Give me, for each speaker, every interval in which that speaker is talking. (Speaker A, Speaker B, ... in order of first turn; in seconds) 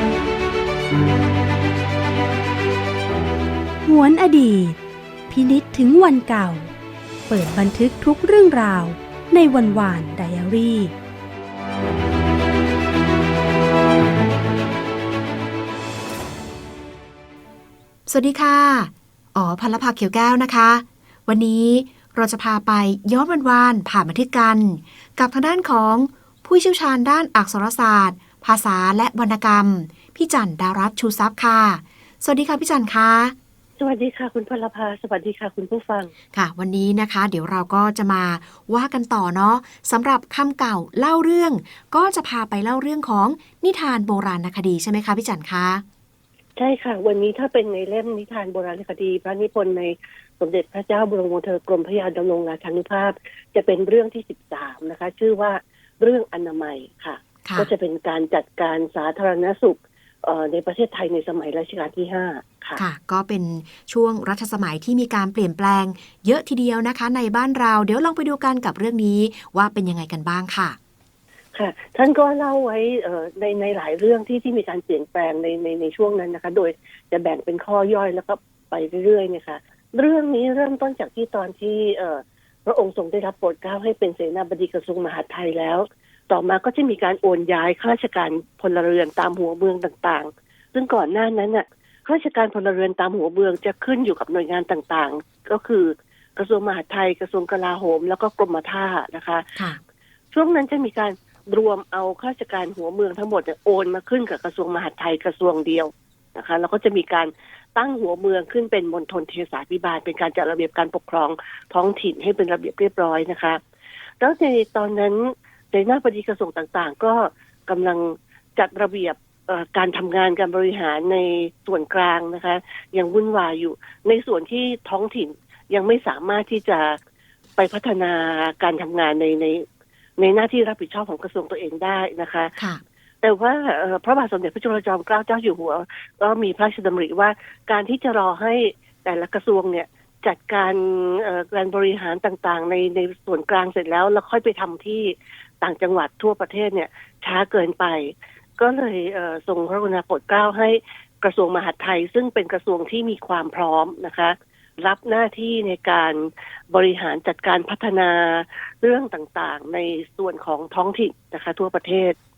Speaker A: 3.9-4.8, 5.3-6.7, 7.3-10.9
Speaker B: 18.1-33.4, 36.3-45.9, 57.4-57.7, 62.8-70.8, 132.6-132.8
Speaker C: 33.8-36.1, 46.6-62.8, 71.5-99.5, 100.3-113.6, 114.2-127.0, 127.6-129.7, 130.2-132.6, 133.2-162.2